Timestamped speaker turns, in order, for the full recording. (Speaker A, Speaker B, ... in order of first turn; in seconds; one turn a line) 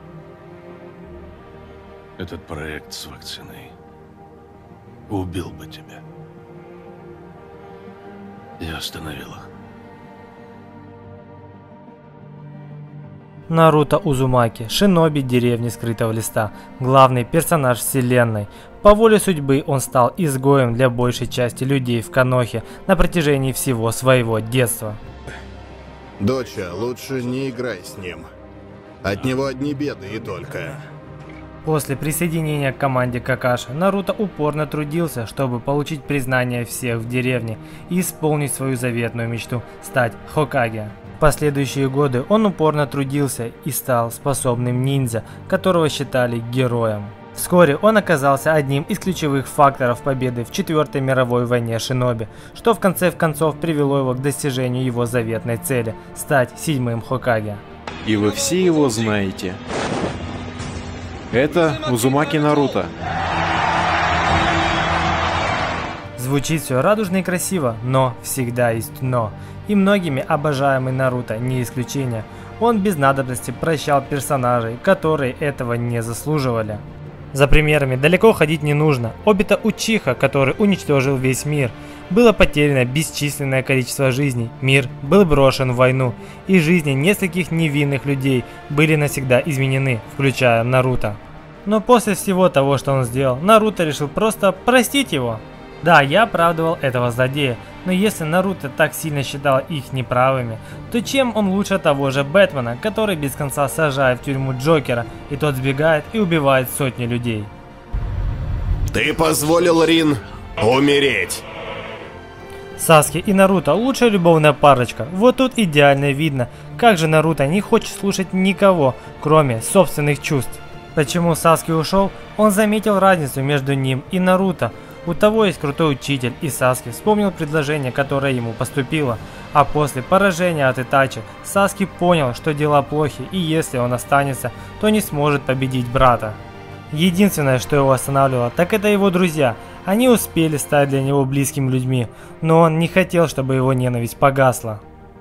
Speaker A: 2.2-3.7
Speaker A: 5.1-6.0
Speaker A: 8.6-9.5
Speaker B: 13.5-25.0
Speaker C: 26.2-28.3
Speaker C: 29.0-30.8
Speaker B: 31.6-57.6
Speaker D: 58.0-59.6
Speaker D: 61.3-62.9
Speaker B: 66.2-107.5
Speaker C: 108.9-111.4
Speaker B: 112.8-136.4
Speaker B: 136.9-144.8